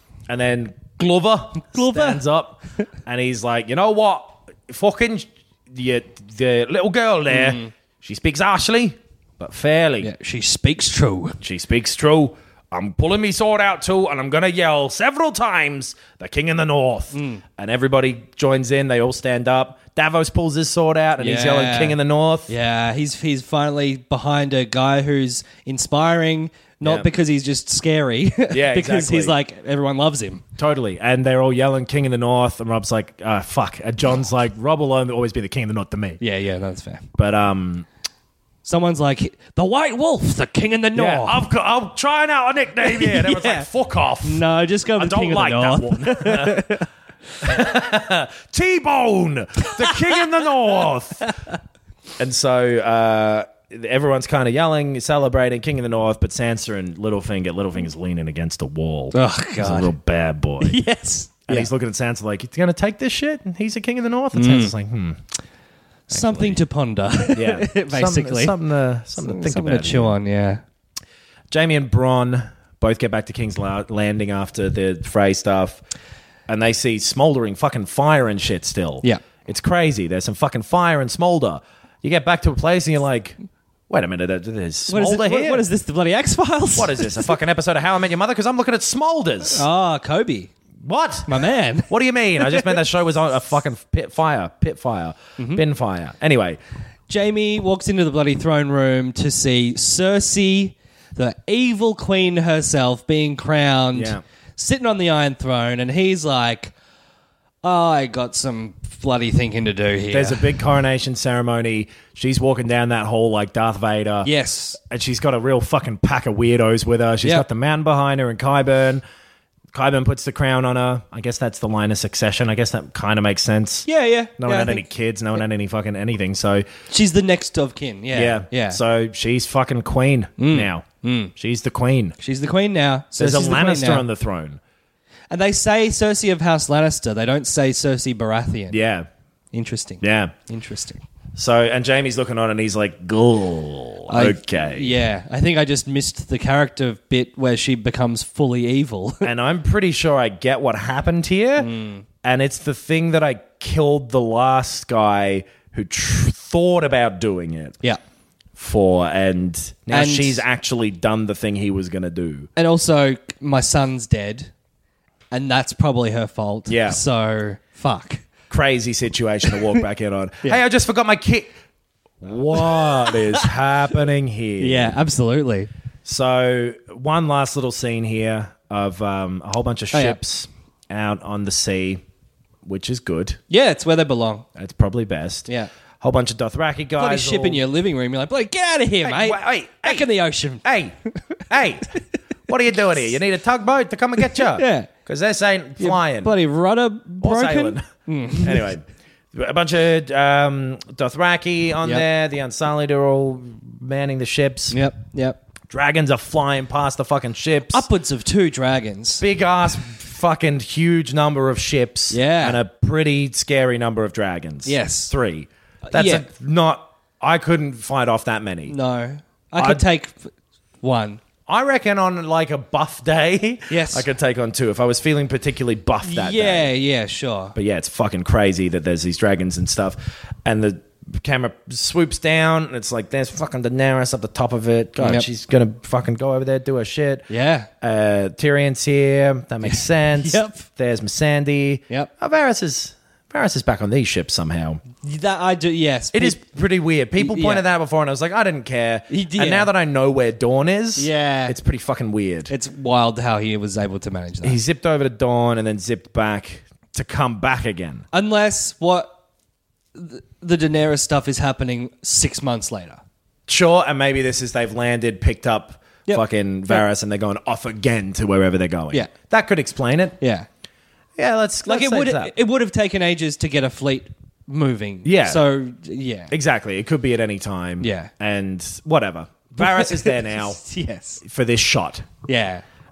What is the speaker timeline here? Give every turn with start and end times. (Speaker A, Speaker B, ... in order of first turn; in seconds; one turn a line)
Speaker A: 0.3-10.1
Speaker B: 1.7-2.2
Speaker B: 7.3-7.7
Speaker B: 10.0-11.4
Speaker A: 11.4-22.5
Speaker B: 17.1-17.4
Speaker B: 21.2-30.4
Speaker A: 26.8-27.1
Speaker A: 28.5-29.4
Speaker A: 30.6-36.2
Speaker B: 36.2-37.1
Speaker A: 37.2-37.9
Speaker B: 38.6-41.4
Speaker A: 40.9-46.8
Speaker B: 42.8-43.6
Speaker B: 44.2-46.9
Speaker A: 47.4-51.3
Speaker B: 49.6-50.0
Speaker A: 52.2-60.8
Speaker B: 59.1-59.9
Speaker B: 60.6-61.7
Speaker A: 61.5-65.2
Speaker B: 64.3-64.7
Speaker B: 66.1-68.5
Speaker A: 66.1-66.6
Speaker A: 67.3-70.2
Speaker B: 69.2-70.6
Speaker A: 71.5-75.8
Speaker A: 76.5-83.4
Speaker A: 83.9-85.6
Speaker B: 84.9-87.3
Speaker A: 86.7-89.7
Speaker B: 89.5-90.5
Speaker A: 90.8-96.6
Speaker B: 91.3-92.8
Speaker B: 97.1-106.7
Speaker A: 103.9-104.2
Speaker B: 107.6-110.5
Speaker A: 110.1-119.0
Speaker B: 114.2-114.8
Speaker A: 119.7-123.9
Speaker B: 123.9-124.8
Speaker A: 124.4-126.6
Speaker B: 126.9-128.8
Speaker A: 128.1-132.2
Speaker B: 130.4-131.3
Speaker B: 132.2-134.1
Speaker A: 133.2-134.6
Speaker B: 135.3-138.8
Speaker A: 138.7-139.1
Speaker B: 139.5-141.0
Speaker A: 140.0-140.3
Speaker A: 141.3-145.0
Speaker B: 144.1-149.3
Speaker A: 149.2-151.7
Speaker B: 151.6-152.0
Speaker A: 152.2-157.8
Speaker A: 158.6-162.5
Speaker B: 159.9-160.4
Speaker B: 162.6-164.5
Speaker B: 165.3-168.2
Speaker A: 166.7-167.0
Speaker A: 168.5-171.5
Speaker A: 172.2-174.9
Speaker B: 172.6-173.4
Speaker B: 174.6-175.7
Speaker A: 176.0-182.0
Speaker B: 179.9-180.2
Speaker A: 182.6-183.4
Speaker B: 183.5-184.4
Speaker A: 184.6-187.6
Speaker B: 187.0-191.4
Speaker A: 189.0-190.1
Speaker A: 190.6-190.9
Speaker A: 191.5-191.9
Speaker A: 192.5-196.3
Speaker B: 194.3-194.9
Speaker B: 195.8-198.7
Speaker A: 197.2-204.8
Speaker B: 204.7-205.4
Speaker A: 205.7-207.8
Speaker B: 207.7-209.2
Speaker A: 209.2-218.8
Speaker B: 212.1-212.6
Speaker B: 214.7-215.1
Speaker B: 215.9-216.2
Speaker B: 218.7-220.3
Speaker A: 219.6-219.8
Speaker B: 220.8-221.2
Speaker A: 221.5-226.7
Speaker B: 223.7-224.1
Speaker B: 226.0-227.5
Speaker A: 227.5-237.3
Speaker B: 235.0-235.2
Speaker B: 237.3-237.7
Speaker A: 237.8-244.8
Speaker B: 239.6-240.6
Speaker B: 245.0-246.4
Speaker A: 246.1-252.5
Speaker B: 247.2-247.6
Speaker B: 249.1-249.7
Speaker B: 250.9-251.6
Speaker B: 252.5-254.6
Speaker A: 254.4-258.1
Speaker B: 258.1-259.1
Speaker B: 259.9-263.0
Speaker A: 263.5-270.2
Speaker B: 266.1-266.8
Speaker B: 270.2-270.5
Speaker A: 271.2-272.3
Speaker B: 271.6-276.3
Speaker A: 275.0-275.4
Speaker A: 276.3-280.6
Speaker B: 277.8-278.1
Speaker B: 279.6-281.2
Speaker A: 281.2-282.1
Speaker B: 282.2-282.6